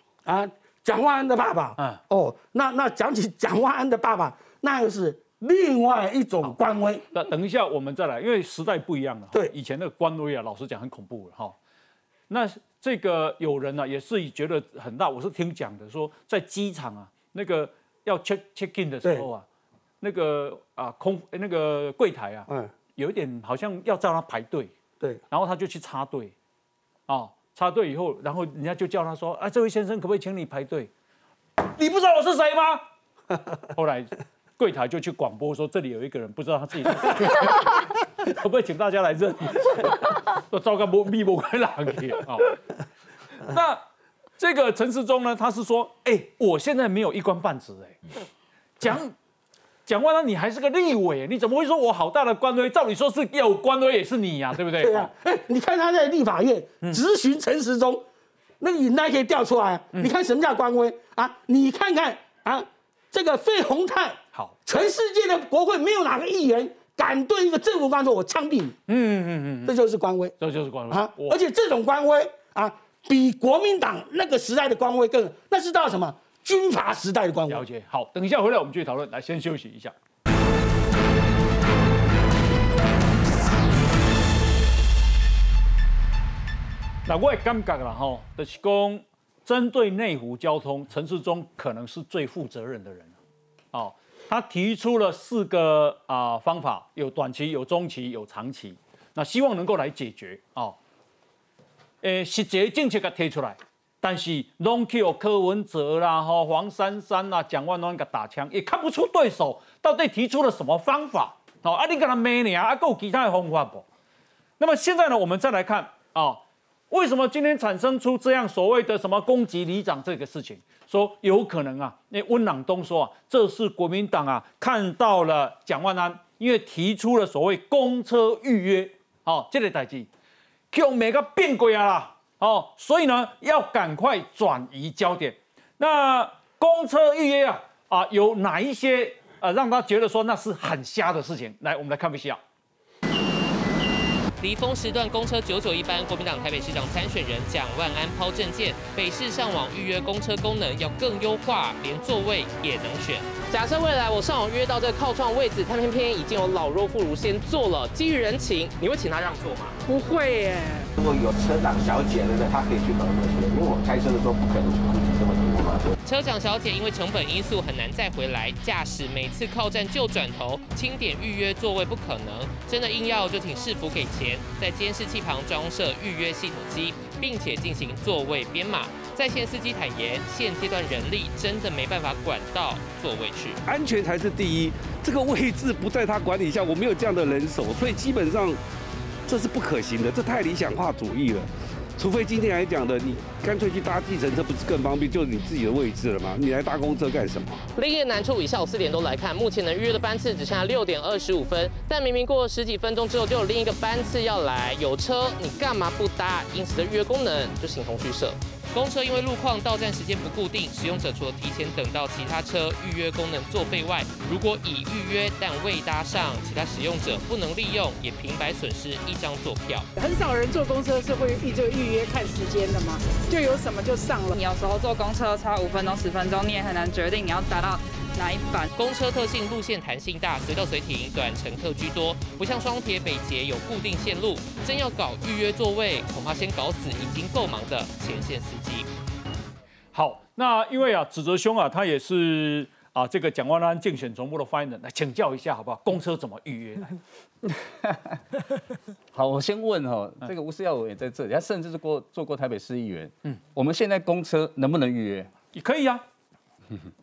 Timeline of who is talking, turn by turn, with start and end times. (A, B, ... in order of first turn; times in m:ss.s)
0:00.2-0:07.0 A
0:07.1-0:11.5 B
0:12.3-0:19.4 B
0:20.0-0:24.7 B
0:25.3-0:26.3 B
0:27.1-0:30.9 B
0:31.6-0:32.8 B
0:33.7-0:42.6 B
0:43.4-0:43.8 B
0:44.4-0:48.0 B
0:48.8-0:49.1 B
0:49.8-0:55.1 B
0:54.8-0:58.0 A
0:58.6-1:08.8 A
1:04.3-1:04.8 B
1:08.9-1:09.7 B
1:09.6-1:10.4 A
1:10.4-1:11.4 B
1:10.9-1:17.6 A
1:17.5-1:19.9 B
1:27.1-1:33.1 B
1:33.7-1:40.8 B
1:42.0-1:53.8 B
1:54.6-2:10.1 B
2:10.7-2:22.4 B
2:24.4-2:39.8 C
2:39.8-2:40.9 D
2:41.0-2:45.9 E
2:46.0-3:03.6 C
3:03.7-3:08.6 F
3:09.3-3:11.4 F
3:12.0-3:17.5 F
3:17.8-3:39.9 C
3:39.9-3:44.3 D
3:44.3-3:48.7 G
3:48.8-3:58.9 C
3:59.9-4:06.9 B
4:07.4-4:08.2 H
4:09.1-4:15.3 H
4:15.5-4:16.0 B